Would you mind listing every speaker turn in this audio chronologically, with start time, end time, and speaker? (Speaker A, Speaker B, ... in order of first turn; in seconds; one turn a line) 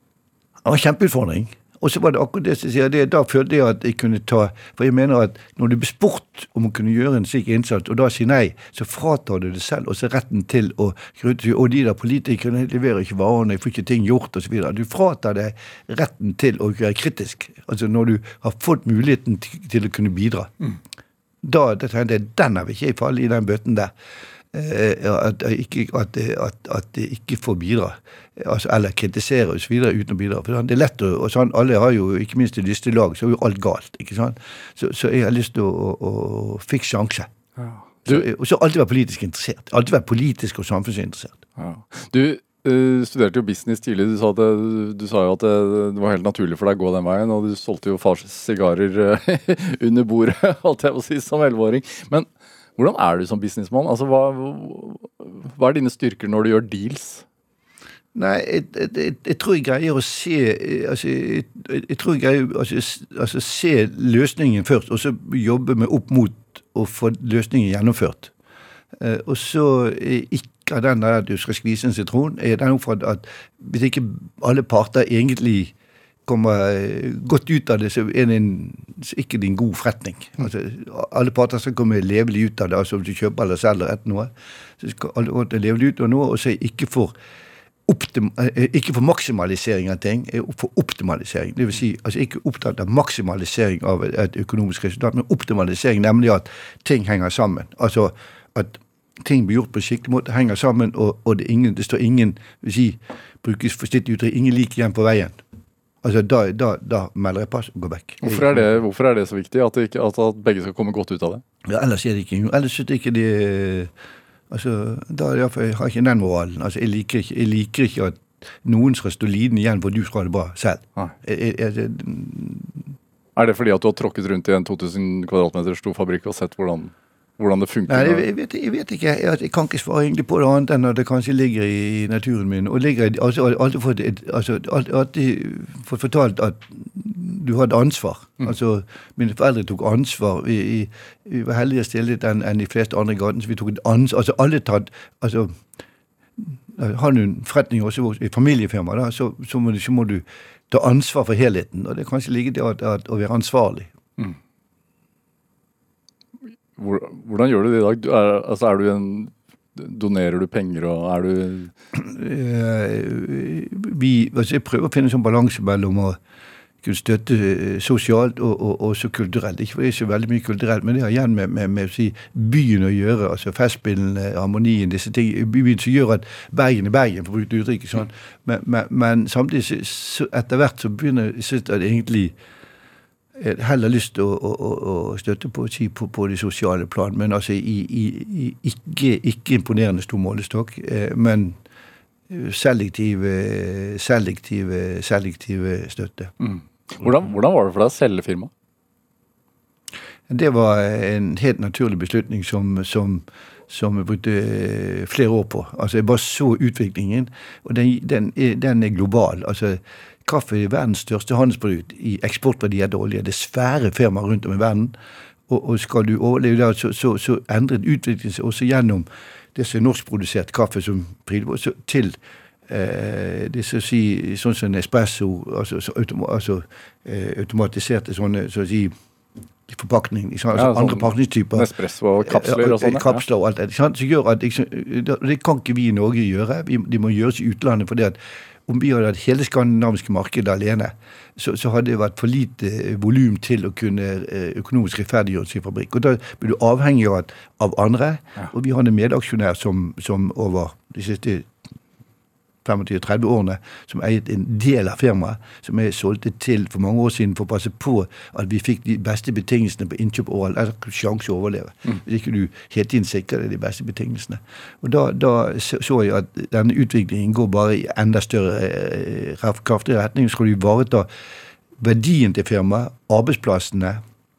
Speaker A: 0.6-20.5
Speaker A: 21.4-23.9
Speaker A: 24.5-37.3
Speaker B: 37.6-38.3
Speaker A: 38.0-41.4
Speaker B: 41.6-57.2
Speaker A: 58.1-68.3
Speaker A: 69.0-75.7
Speaker A: 76.2-87.1
Speaker A: 87.9-105.4
Speaker A: 106.0-108.7
Speaker B: 108.2-111.4
Speaker A: 111.6-113.9
Speaker A: 114.5-122.9
Speaker B: 123.3-128.2
Speaker A: 127.9-145.6
Speaker A: 146.4-153.9
Speaker B: 156.8-161.7
Speaker A: 161.9-166.2
Speaker A: 166.8-182.3
Speaker A: 183.4-191.6
Speaker A: 192.3-196.3
Speaker B: 196.4-198.5
Speaker A: 200.3-214.9
Speaker A: 215.5-228.9
Speaker A: 229.7-231.7
Speaker B: 230.5-233.2
Speaker A: 232.2-251.5
Speaker A: 252.6-271.1
Speaker A: 271.8-274.0